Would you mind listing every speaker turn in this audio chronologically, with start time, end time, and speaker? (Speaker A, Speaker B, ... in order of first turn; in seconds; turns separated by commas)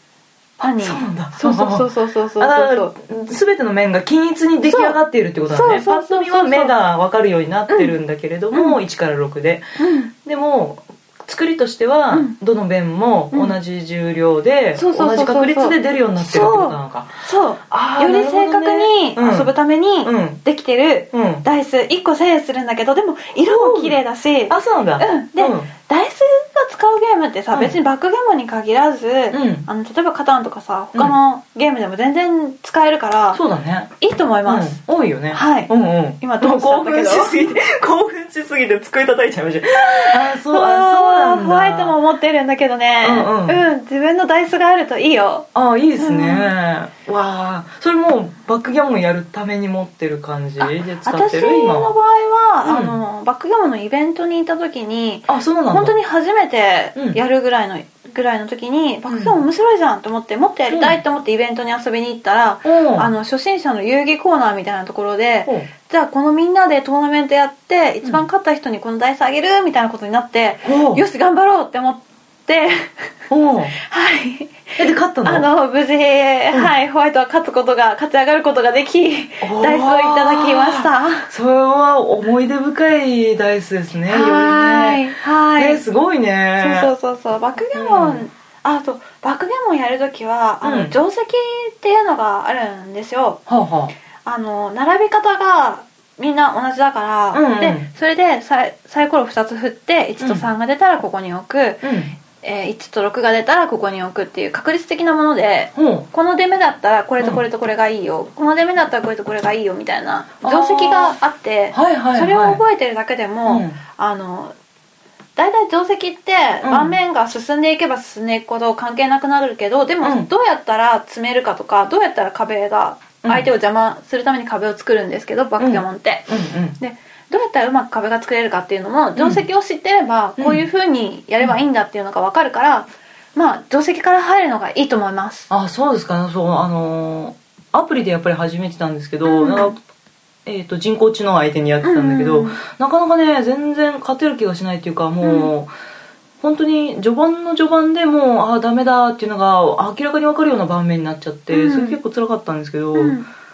Speaker A: 0.6-2.9, Speaker B: 0.8-9.7, Speaker A: 4.7-5.0, Speaker A: 5.5-6.7, Speaker A: 8.5-8.8, Speaker A: 9.8-10.1, Speaker B: 10.2-17.1, Speaker A: 13.3-13.6, Speaker A: 14.8-33.4, Speaker B: 17.7-19.5, Speaker B: 20.0-20.4, Speaker B: 21.1-21.4, Speaker B: 23.4-24.0, Speaker B: 24.5-25.7, Speaker B: 29.3-29.7, Speaker B: 33.3-33.9, Speaker A: 34.0-37.4, Speaker B: 34.5-42.0, Speaker A: 39.9-46.5, Speaker B: 43.0-43.6, Speaker B: 45.5-52.0, Speaker A: 50.6-73.1, Speaker B: 52.6-53.0, Speaker B: 55.3-56.0, Speaker B: 59.1-59.4, Speaker B: 60.7-61.0, Speaker B: 62.6-63.1, Speaker B: 70.6-71.0, Speaker B: 73.3-73.8, Speaker A: 73.7-81.3, Speaker B: 74.8-75.5, Speaker B: 79.4-86.9, Speaker A: 84.1-85.8, Speaker A: 86.6-93.4, Speaker B: 87.8-88.2, Speaker B: 90.6-90.9, Speaker B: 93.5-93.9, Speaker A: 94.2-114.5, Speaker B: 97.3-97.9, Speaker B: 101.8-102.1, Speaker B: 105.8-106.1, Speaker B: 110.4-111.2, Speaker B: 111.7-112.6, Speaker B: 113.5-113.8, Speaker A: 115.4-135.5, Speaker B: 116.6-117.0, Speaker B: 120.0-120.3, Speaker B: 125.6-126.8, Speaker B: 129.2-129.4, Speaker B: 130.4-130.6, Speaker B: 135.5-139.8, Speaker A: 139.3-139.7, Speaker B: 140.4-145.7, Speaker A: 141.8-142.6, Speaker A: 145.2-145.5, Speaker B: 146.4-153.2, Speaker A: 151.5-152.0, Speaker A: 152.9-153.3